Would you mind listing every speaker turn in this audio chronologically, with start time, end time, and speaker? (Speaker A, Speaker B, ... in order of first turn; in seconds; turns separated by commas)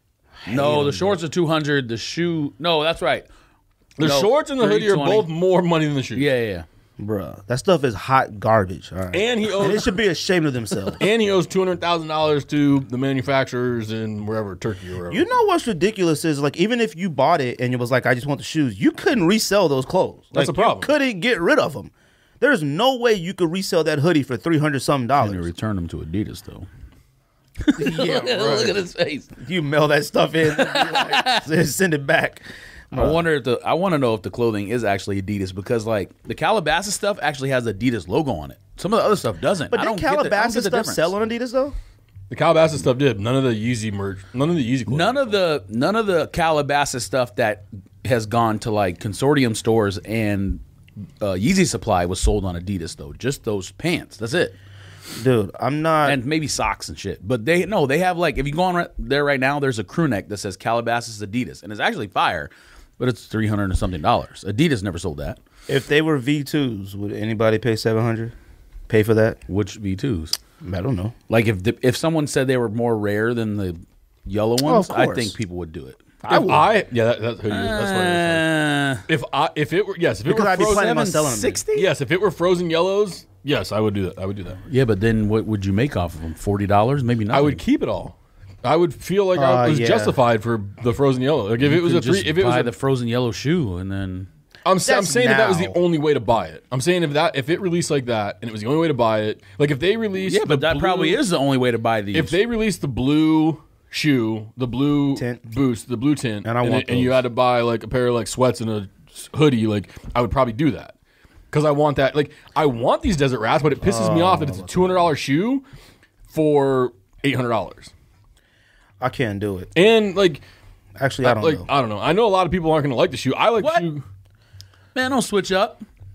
Speaker A: 0.5-1.2, Speaker B: 0.5-3.3, Speaker C: 4.0-6.3, Speaker B: 4.0-5.3, Speaker B: 6.2-6.7, Speaker A: 7.0-11.0, Speaker C: 9.1-9.9, Speaker C: 11.0-15.3, Speaker A: 15.1-25.5, Speaker C: 20.4-20.9, Speaker B: 25.2-26.7, Speaker B: 27.6-29.3, Speaker A: 27.8-28.8, Speaker C: 28.3-28.8, Speaker A: 29.4-33.2, Speaker B: 30.5-31.5, Speaker B: 32.9-41.1, Speaker A: 39.7-41.8, Speaker C: 42.3-45.4, Speaker B: 44.9-50.6, Speaker B: 51.2-54.5, Speaker A: 55.1-56.2, Speaker B: 56.0-65.4, Speaker A: 65.7-68.3, Speaker A: 68.9-69.4, Speaker B: 69.5-70.4, Speaker A: 70.6-71.1, Speaker B: 71.3-76.0, Speaker A: 74.7-75.3, Speaker A: 76.2-76.7, Speaker C: 76.3-78.5, Speaker B: 77.5-79.1, Speaker C: 79.1-81.1, Speaker A: 80.2-81.6, Speaker B: 80.5-81.9, Speaker C: 81.7-84.6, Speaker B: 84.7-87.6, Speaker C: 87.3-92.7, Speaker A: 89.3-90.2, Speaker B: 91.6-94.3, Speaker C: 94.7-101.2, Speaker A: 94.8-95.8, Speaker B: 100.2-102.3, Speaker C: 102.1-111.0, Speaker A: 105.2-105.4, Speaker A: 106.5-107.2, Speaker C: 111.5-115.7, Speaker A: 113.8-115.1, Speaker C: 116.3-117.9, Speaker A: 119.0-119.7, Speaker C: 119.8-120.5, Speaker A: 121.0-121.7, Speaker C: 121.2-124.0, Speaker B: 123.6-123.9, Speaker B: 125.0-125.8